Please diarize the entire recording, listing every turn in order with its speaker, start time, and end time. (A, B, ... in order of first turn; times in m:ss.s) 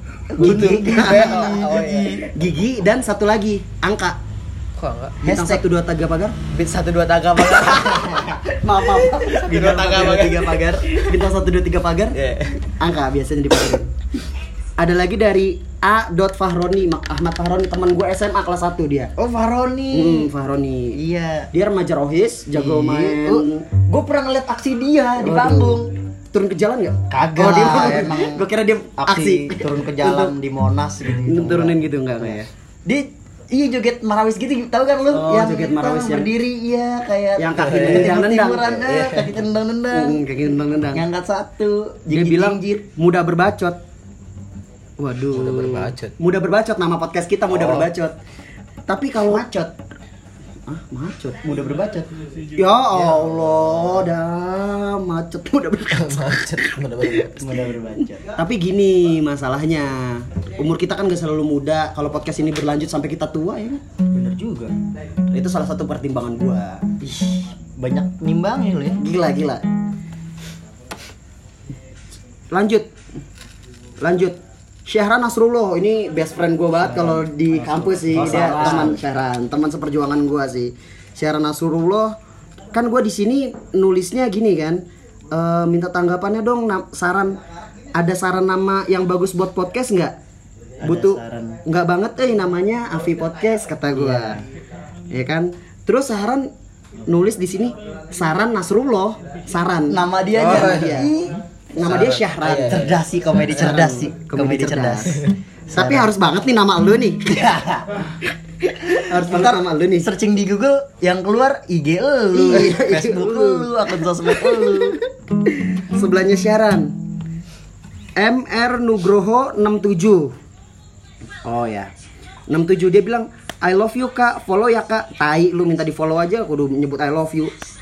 0:00.3-0:02.4 A
0:00.4-0:04.2 B
0:00.4-0:02.2 C
0:04.8-0:05.2 C
0:05.2-0:05.6 A
0:05.2-0:06.4 B
0:06.5-0:11.2 C
0:08.5-0:12.2 B
0:12.1-0:12.6 C
0:12.8-0:13.9 B
0:14.8-0:19.1 B
0:19.2-0:20.3 A
0:19.9-0:21.0 B
0:21.0-0:21.5 A
0:21.5-0:23.6 B
0:22.5-0:25.9 A
0:25.2-0:30.3 B
0:27.1-0:28.4 A
0:29.0-0:31.8 A
0:31.2-0:32.5 B
0:32.9-0:40.2 A
0:35.0-0:36.3 B
0:37.4-0:38.8 B
0:37.6-0:38.2 C
0:38.8-0:39.4 C
0:39.9-0:41.0 B
0:40.9-0:42.8 A
0:42.1-0:43.8 B
0:45.0-0:48.2 B
0:45.3-0:46.1 C
0:47.5-0:47.9 C
0:48.9-0:49.5 B
0:49.3-0:49.7 A
0:50.7-0:52.1 A
0:52.5-0:57.1 B
0:53.0-0:53.6 C
0:55.9-0:57.6 C
0:57.4-0:58.2 A
0:58.4-1:03.8 B
1:04.1-1:04.7 A
1:05.3-1:06.8 B
1:07.0-1:09.0 A
1:09.0-1:09.6 B
1:12.5-1:12.9 B
1:14.0-1:22.1 B
1:16.9-1:19.0 A
1:18.1-1:18.9 C
1:22.7-1:27.4 B
1:27.9-1:30.1 B
1:30.8-1:31.6 A
1:30.8-1:34.4 B
1:33.9-1:34.4 A
1:35.1-1:36.5 B
1:37.1-1:41.1 B
1:39.9-1:41.4 A
1:40.4-1:41.1 C
1:41.8-1:43.0 B
1:41.8-1:43.0 C
1:42.4-1:45.2 A
1:43.5-1:47.2 B
1:45.7-1:46.1 A
1:47.2-1:48.0 A
1:48.9-1:50.1 B
1:49.1-1:55.0 A
1:52.3-1:55.0 B
1:55.7-1:56.9 B
1:58.2-2:00.4 B
2:01.4-2:01.9 B
2:02.5-2:07.5 B